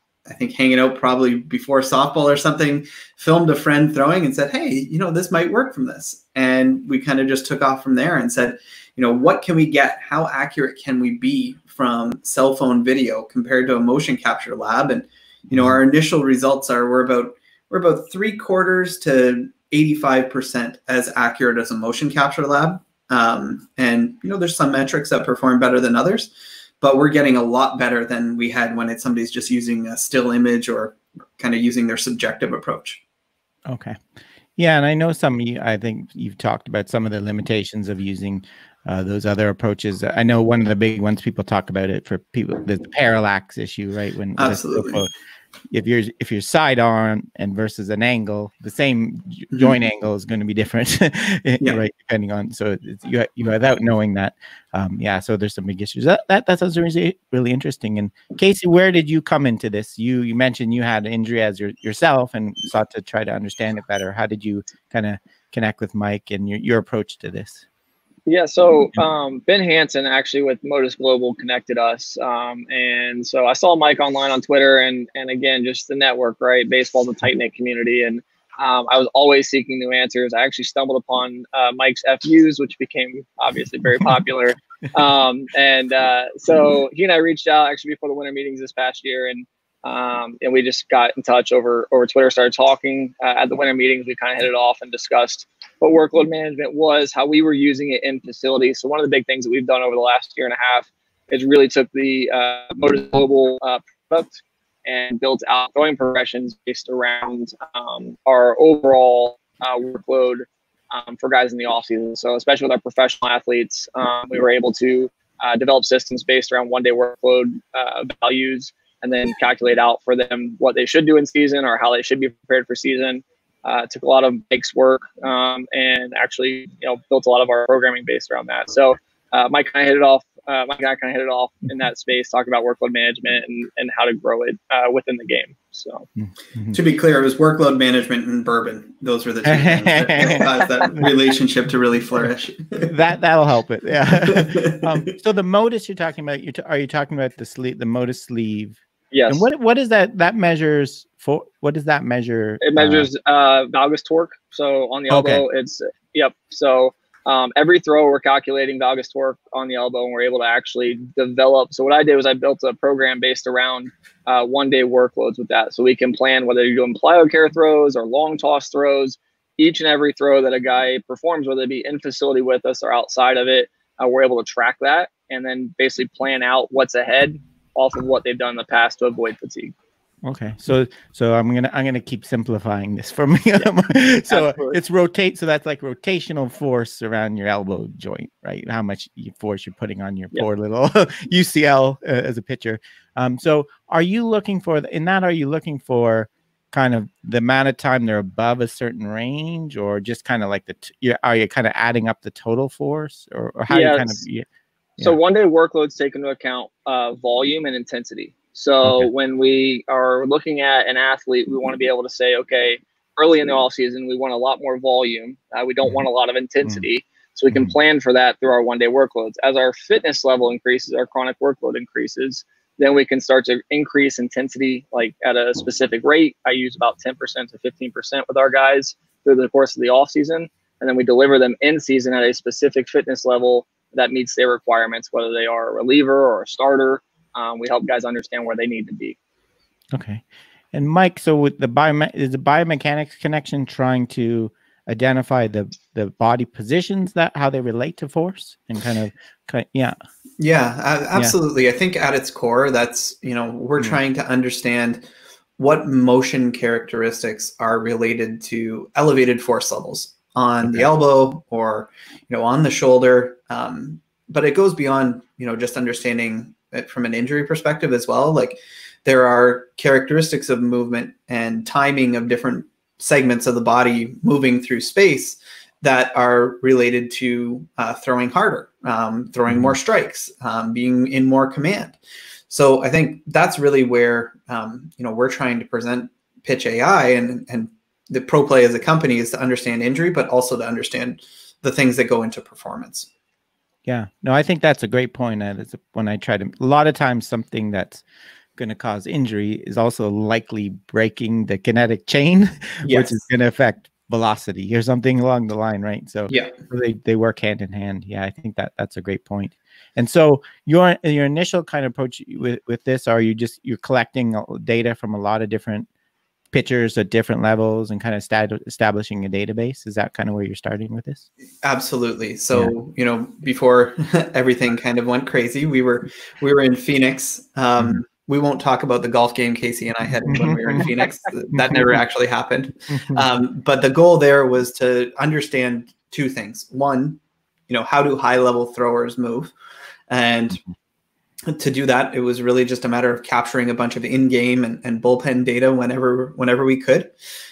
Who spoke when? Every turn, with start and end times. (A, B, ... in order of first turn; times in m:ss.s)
0:00.3-0:33.0 A
0:15.5-0:15.8 B
0:33.7-0:34.0 B
0:34.6-0:45.1 B
0:44.4-0:45.0 A
0:45.7-1:07.6 B
0:49.5-0:49.8 A
1:08.3-2:16.1 C
2:16.2-2:16.8 B
2:16.7-2:22.9 A
2:19.4-2:21.1 B
2:22.8-2:33.1 B
2:24.2-2:25.1 A
2:29.1-2:29.5 C
2:32.6-2:59.7 C
2:35.1-2:35.4 B
3:00.2-3:24.4 B
3:04.3-3:04.8 C
3:23.7-3:24.2 C
3:25.0-3:59.2 C
3:28.8-3:29.1 B
3:59.9-4:10.0 B
4:10.4-4:15.1 A
4:15.6-4:42.0 A
4:20.6-4:20.9 B
4:39.5-4:39.8 B
4:42.5-4:53.1 A
4:53.9-4:58.0 B
4:58.6-5:15.9 B
5:02.8-5:03.2 A
5:16.5-5:21.3 B
5:21.6-5:39.5 A
5:30.2-5:30.9 B
5:31.5-5:32.0 B
5:32.9-5:33.3 B
5:40.1-5:40.6 A
5:41.5-5:47.1 A